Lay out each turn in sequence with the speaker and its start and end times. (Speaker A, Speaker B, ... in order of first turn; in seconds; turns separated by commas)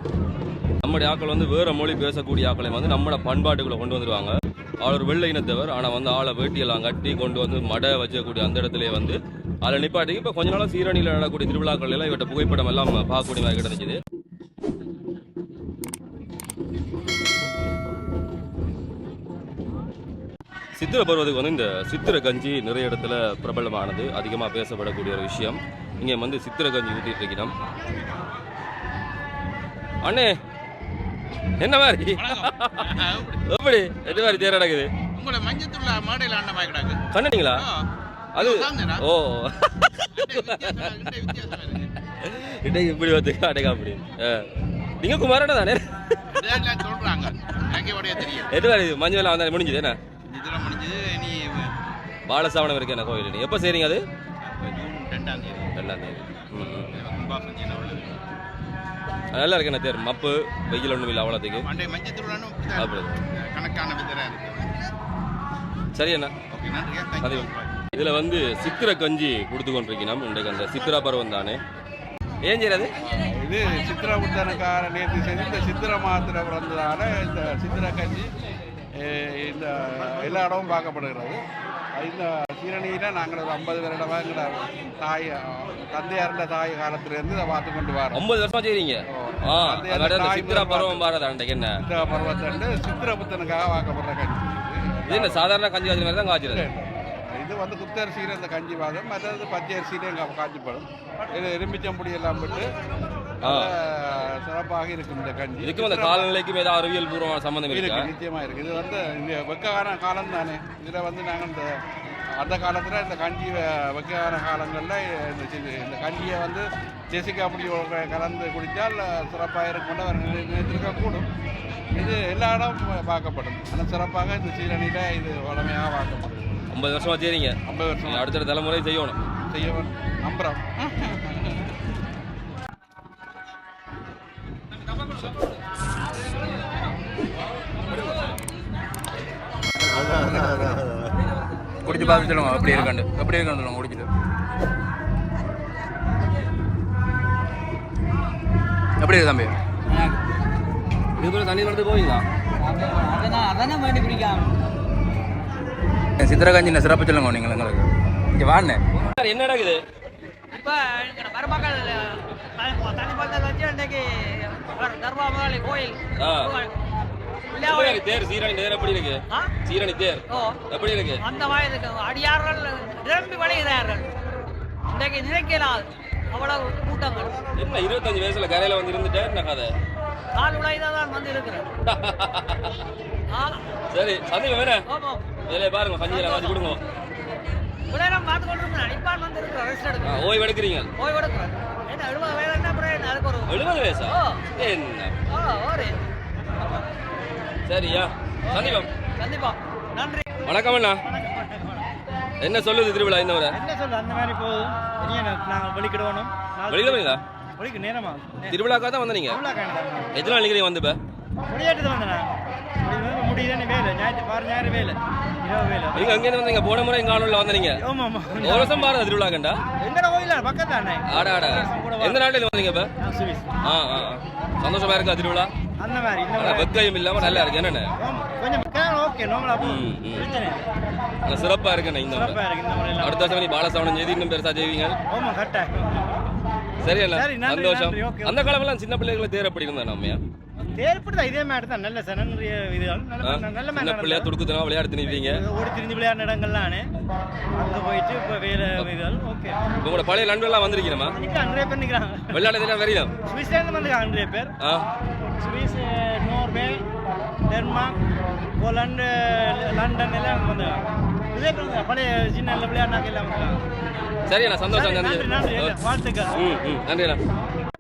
Speaker A: 0.8-14.0, Speaker A: 20.8-27.5, Speaker A: 30.0-30.4, Speaker A: 31.6-34.9, Speaker B: 32.2-33.4, Speaker B: 34.0-34.5, Speaker B: 35.1-39.0, Speaker A: 37.1-37.7, Speaker A: 38.4-41.6, Speaker B: 40.1-41.9, Speaker A: 42.1-46.4, Speaker B: 46.4-48.7, Speaker A: 48.2-50.0, Speaker B: 50.3-51.8, Speaker A: 52.3-54.0, Speaker B: 54.4-55.8, Speaker A: 55.8-57.0, Speaker B: 56.9-58.3, Speaker A: 59.3-61.7, Speaker B: 61.6-64.9, Speaker A: 62.8-63.2, Speaker A: 66.0-66.3, Speaker B: 66.5-67.8, Speaker A: 67.2-71.6, Speaker A: 72.5-72.9, Speaker C: 73.0-78.3, Speaker C: 79.0-81.4, Speaker C: 82.0-88.2, Speaker A: 88.1-91.8, Speaker C: 89.1-91.0, Speaker C: 91.8-95.5, Speaker A: 95.1-96.7, Speaker C: 96.5-102.7, Speaker C: 103.4-106.3, Speaker A: 103.4-103.7, Speaker A: 105.6-108.1, Speaker C: 107.7-111.7, Speaker C: 112.4-121.3, Speaker C: 122.0-126.5, Speaker A: 126.7-129.2, Speaker C: 127.7-128.3, Speaker C: 129.5-131.7, Speaker C: 140.1-140.7, Speaker D: 141.8-144.1, Speaker E: 142.6-142.9, Speaker D: 149.0-149.6, Speaker A: 151.2-152.2, Speaker E: 152.8-154.3, Speaker D: 156.2-158.8, Speaker A: 158.9-159.8, Speaker E: 160.5-166.8, Speaker A: 166.2-166.5, Speaker E: 167.5-168.0, Speaker A: 167.5-171.2, Speaker E: 170.3-170.6, Speaker E: 171.2-174.1, Speaker E: 174.9-177.4, Speaker A: 177.6-179.7, Speaker E: 180.3-181.7, Speaker A: 181.8-182.7, Speaker E: 183.3-183.7, Speaker A: 183.9-184.9, Speaker E: 184.9-185.3, Speaker A: 185.5-186.8, Speaker E: 186.1-186.6, Speaker E: 187.9-190.2, Speaker A: 190.0-190.9, Speaker E: 191.0-194.4, Speaker A: 193.5-195.2, Speaker E: 195.3-196.0, Speaker A: 197.7-198.9, Speaker E: 199.2-200.4, Speaker A: 200.4-201.1, Speaker F: 201.0-201.9, Speaker A: 202.4-203.6, Speaker F: 203.5-208.6, Speaker A: 206.7-207.2, Speaker A: 208.5-209.4, Speaker F: 209.3-210.3, Speaker A: 210.1-211.0, Speaker F: 211.5-216.2, Speaker A: 215.9-217.8, Speaker F: 217.8-218.8, Speaker A: 218.3-219.6, Speaker F: 219.8-222.2, Speaker A: 221.1-222.9, Speaker F: 223.0-223.5, Speaker A: 223.6-225.5, Speaker F: 225.8-226.7, Speaker A: 226.3-227.9, Speaker F: 227.4-230.7, Speaker A: 229.6-230.3, Speaker A: 231.3-232.4, Speaker F: 232.1-233.3, Speaker A: 233.0-235.0, Speaker F: 235.1-236.1, Speaker A: 236.8-240.2, Speaker F: 237.1-238.4, Speaker F: 240.8-244.3, Speaker A: 243.2-245.4, Speaker F: 245.2-246.9, Speaker F: 247.5-249.6, Speaker A: 249.8-251.2, Speaker F: 251.1-252.5, Speaker A: 252.3-253.2, Speaker F: 253.2-254.5, Speaker A: 254.6-254.8, Speaker F: 255.4-256.9, Speaker F: 257.4-258.0, Speaker F: 258.6-263.6, Speaker A: 264.3-267.2, Speaker F: 264.7-266.5